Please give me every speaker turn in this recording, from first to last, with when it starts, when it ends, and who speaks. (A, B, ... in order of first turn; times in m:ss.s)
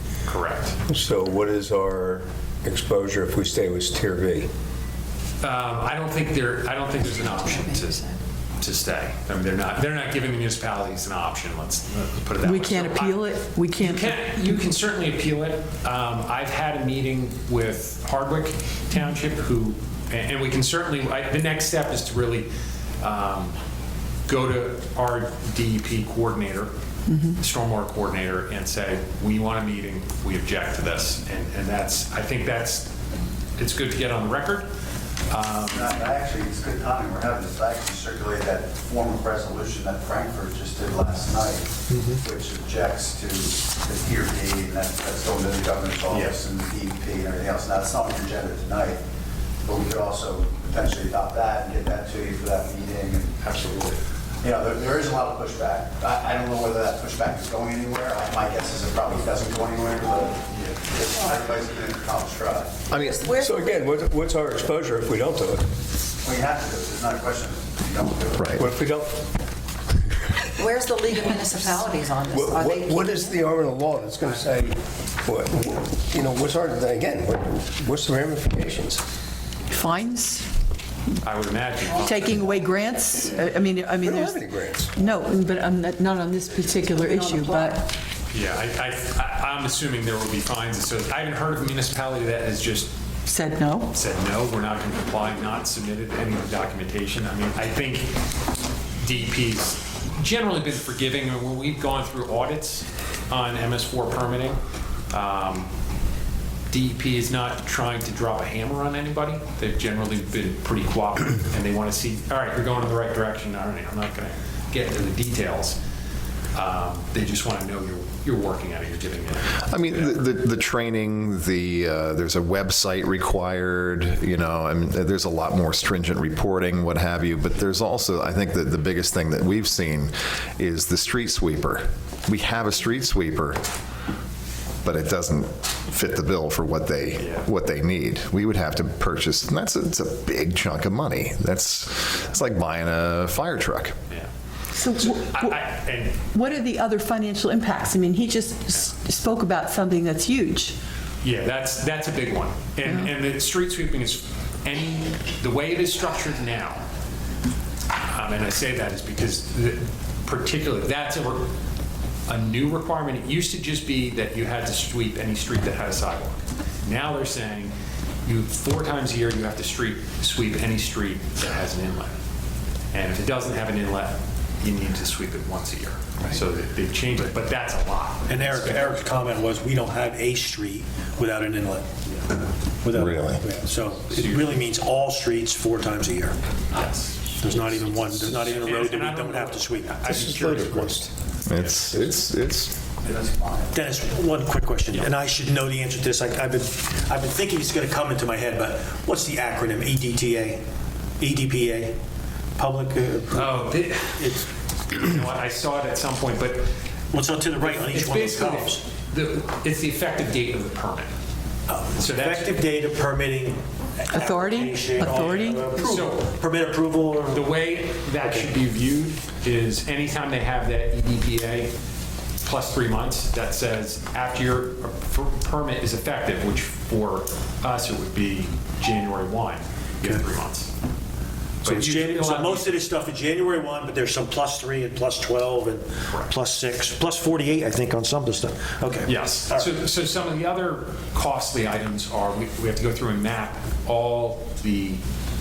0:00.2-0:00.8 A
0:00.9-0:04.5 B
0:05.4-0:22.5 A
0:12.4-0:14.6 C
0:23.0-0:23.6 A
0:24.3-0:26.7 A
0:27.1-0:27.4 C
0:27.4-0:32.9 A
0:33.6-0:34.7 A
0:35.3-0:35.9 A
0:35.7-0:49.0 D
0:46.1-0:46.4 A
0:49.6-0:53.4 D
0:53.4-0:54.0 A
0:54.4-1:02.9 D
1:00.5-1:00.8 A
1:02.9-1:03.5 E
1:03.2-1:05.7 B
1:06.2-1:08.6 D
1:08.4-1:08.6 F
1:08.5-1:09.3 B
1:10.6-1:13.3 E
1:12.3-1:19.0 B
1:19.7-1:20.5 C
1:21.2-1:23.5 A
1:21.9-1:27.9 C
1:24.0-1:24.9 B
1:26.9-1:27.7 E
1:28.3-1:32.9 A
1:33.3-1:33.9 C
1:33.9-1:38.2 A
1:39.0-1:44.6 A
1:45.1-1:45.7 A
1:46.7-1:55.8 A
1:56.5-2:00.3 A
1:59.7-2:13.6 F
2:14.8-2:24.0 F
2:17.2-2:17.5 A
2:24.7-2:25.6 C
2:24.9-2:26.4 A
2:26.1-2:30.8 C
2:31.2-2:36.8 A
2:38.0-2:41.5 A
2:42.3-2:47.7 A
2:48.2-2:52.1 A
2:52.9-2:58.9 A
2:58.3-3:01.9 G
3:02.8-3:06.4 G
3:02.9-3:03.4 F
3:04.1-3:04.6 A
3:06.7-3:07.4 A
3:07.4-3:11.0 G
3:08.1-3:10.3 A
3:10.1-3:11.1 B
3:11.4-3:12.8 F
3:11.5-3:12.0 A
3:13.0-3:14.0 D
3:13.7-3:20.6 G
3:21.2-3:22.0 G
3:22.6-3:24.5 G
3:23.3-3:24.2 A
3:24.9-3:26.7 A
3:27.1-3:28.8 G
3:27.6-3:31.1 A
3:31.7-3:37.6 G
3:32.0-3:32.6 A
3:34.1-3:35.6 C
3:35.7-3:36.2 A
3:37.3-3:41.7 A
3:38.2-3:38.5 G
3:42.4-3:50.7 A
3:51.6-3:52.8 A
3:51.6-3:59.7 G
3:56.1-3:56.3 A
3:59.0-4:05.0 A